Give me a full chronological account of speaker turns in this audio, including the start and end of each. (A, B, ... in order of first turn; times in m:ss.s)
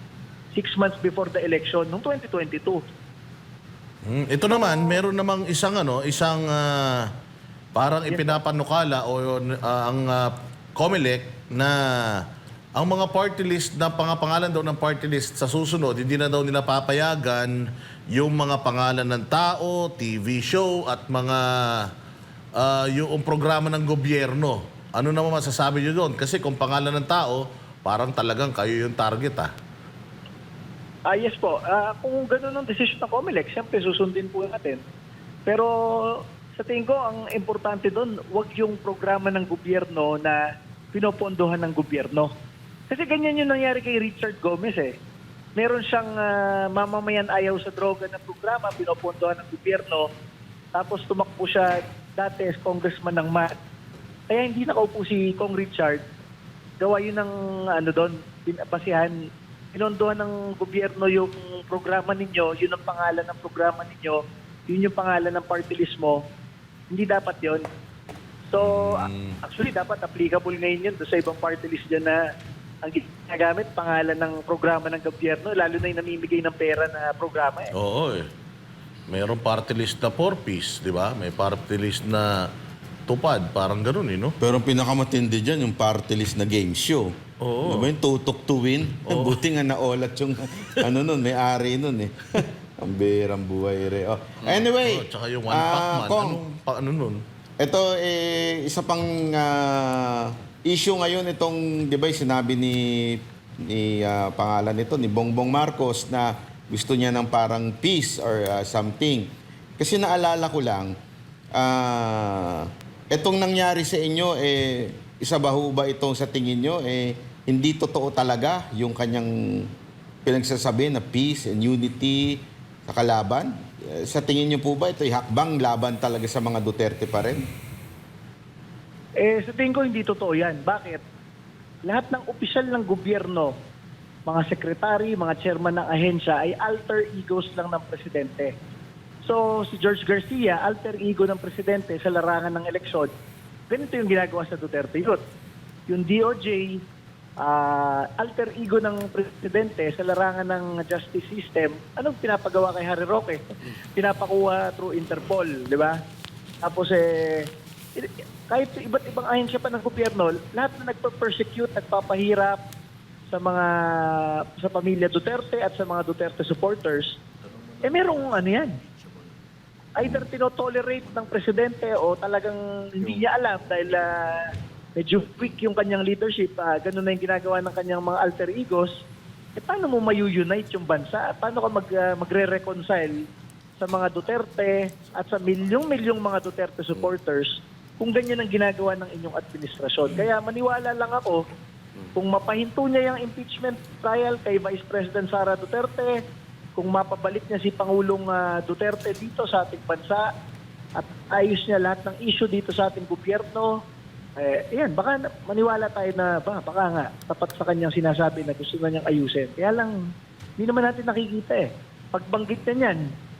0:00.5-0:02.8 A
0:04.0-0:07.1 B
0:04.5-0:05.0 A
0:07.7-0:21.9 B
0:08.1-0:08.4 A
0:22.6-0:29.5 B
0:31.1-0:34.8 A
0:35.4-0:42.3 A
0:42.9-0:45.0 A
0:45.5-0:50.1 A
0:50.7-0:53.5 A
0:54.3-0:56.0 A
0:56.8-1:06.2 A
1:06.9-1:07.6 A
1:08.5-1:12.2 A
1:08.6-1:09.4 B
1:12.8-1:17.7 A
1:17.7-1:18.3 B
1:19.1-1:22.5 B
1:23.1-1:24.4 B
1:24.4-1:36.4 C
1:27.4-1:27.9 B
1:29.1-1:29.4 B
1:34.4-1:37.2 B
1:37.6-1:50.9 C
1:51.5-1:59.7 C
2:00.2-2:07.5 C
2:09.2-2:11.0 A
2:11.8-2:13.5 A
2:14.2-2:18.5 A
2:19.2-2:23.1 A
2:23.7-2:25.2 A
2:25.9-2:26.8 A
2:27.4-2:36.0 A
2:36.6-2:42.6 A
2:43.3-2:47.2 A
2:47.8-2:48.8 A
2:50.0-2:59.0 A
2:59.6-3:03.2 A
3:03.8-3:11.4 A
3:12.1-3:16.2 A
3:16.8-3:20.3 A
3:21.0-3:23.8 A
3:24.4-3:33.1 A